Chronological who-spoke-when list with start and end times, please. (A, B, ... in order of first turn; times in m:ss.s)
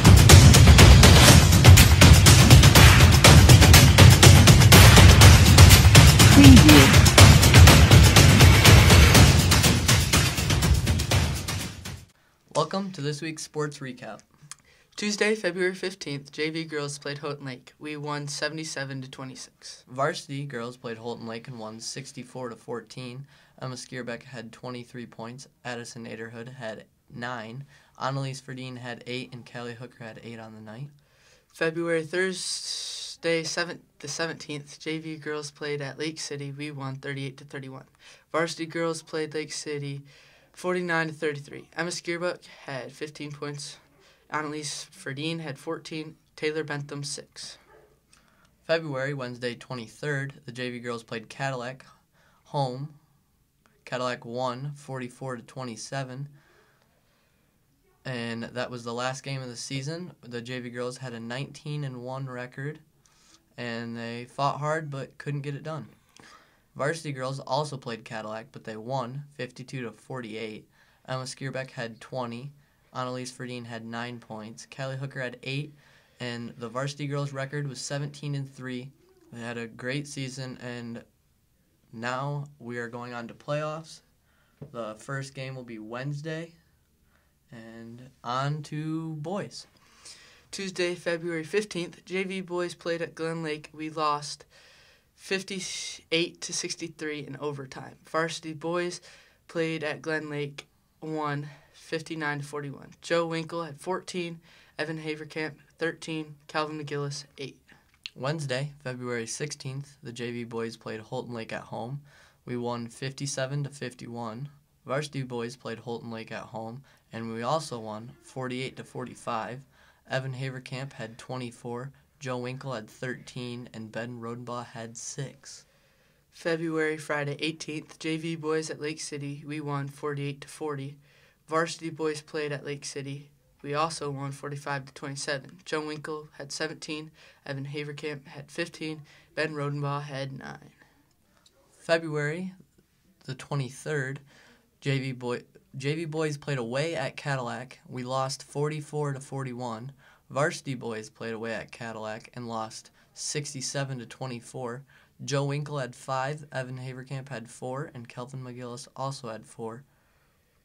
0:06.3-0:07.0 A
0:12.5-0:14.2 B
0:15.0-0:19.8 A
0:19.9-0:30.9 B
0:31.5-0:47.6 A
0:48.6-0:51.8 B
0:52.4-0:52.9 B
0:53.8-0:56.3 B
0:58.0-1:02.8 B
1:03.6-1:05.9 B
1:06.7-1:21.0 B
1:21.9-1:24.0 B
1:24.7-1:26.6 B
1:27.5-1:29.7 B
1:30.5-1:34.5 A
1:35.1-1:47.6 A
1:48.1-2:05.6 B
2:06.3-2:20.8 A
2:21.8-2:22.5 B
2:23.2-2:24.2 B
2:24.8-2:39.8 B